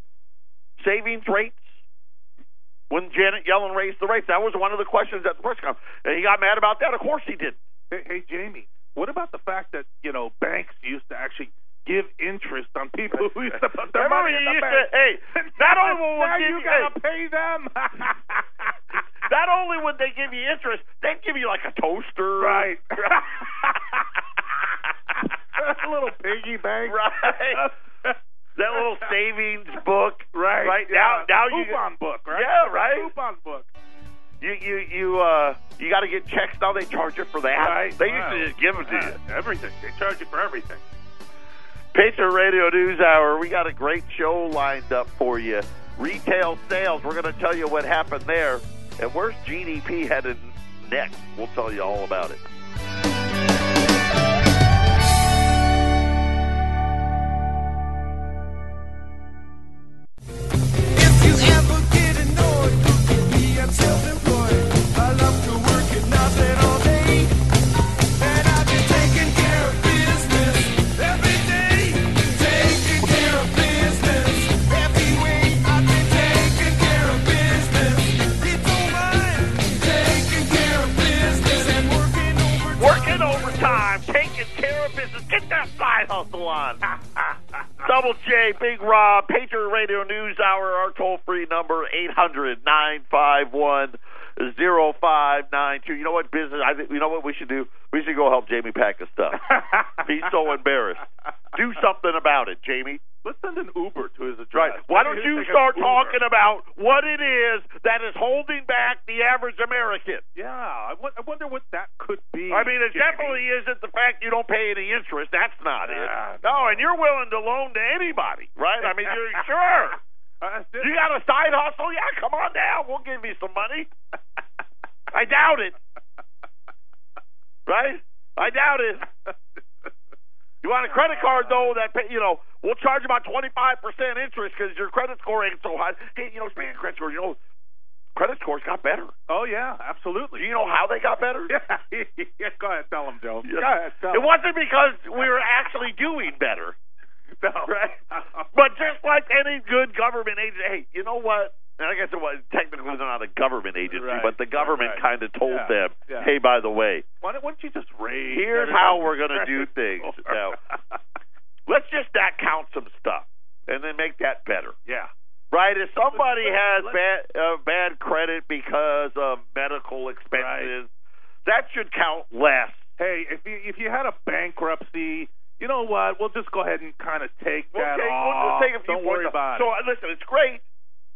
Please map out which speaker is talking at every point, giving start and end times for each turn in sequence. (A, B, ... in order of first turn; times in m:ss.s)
0:00.8-0:01.6 A
0:02.9-0:07.6 A
0:07.9-0:18.7 B
0:13.8-0:16.9 A
0:19.2-0:23.7 A
0:22.4-0:24.1 B
0:25.5-0:28.2 B
0:26.8-0:27.7 A
0:28.6-0:33.1 A
0:28.7-0:29.1 B
0:30.3-0:33.7 B
0:34.4-0:39.2 A
0:37.6-0:40.8 B
0:41.9-0:52.4 A
1:00.9-1:07.3 C
1:08.2-1:23.8 C
1:22.8-1:26.8 A
1:27.8-1:43.0 A
1:39.4-1:40.0 B
1:43.2-1:46.2 B
1:44.5-1:50.2 A
1:50.3-1:53.4 B
1:52.5-2:00.0 A
1:55.8-1:56.8 B
1:58.8-1:59.4 B
2:00.4-2:00.9 B
2:00.8-2:03.9 A
2:05.1-2:05.8 A
2:07.6-2:09.0 A
2:10.6-2:17.4 A
2:10.9-2:11.7 B
2:18.2-2:19.1 A
2:19.3-2:20.4 B
2:20.4-2:21.5 A
2:21.5-2:24.3 B
2:23.4-2:26.8 A
2:27.4-2:28.4 B
2:27.6-2:28.0 A
2:28.5-2:37.0 A
2:33.9-2:36.3 B
2:37.2-2:41.0 B
2:38.3-2:40.6 A
2:41.7-2:44.8 A
2:44.8-2:45.1 B
2:45.5-2:50.9 A
2:46.1-2:47.0 B
2:50.3-2:50.7 B
2:51.4-2:52.8 A
2:53.0-2:59.7 B
2:57.7-3:00.6 A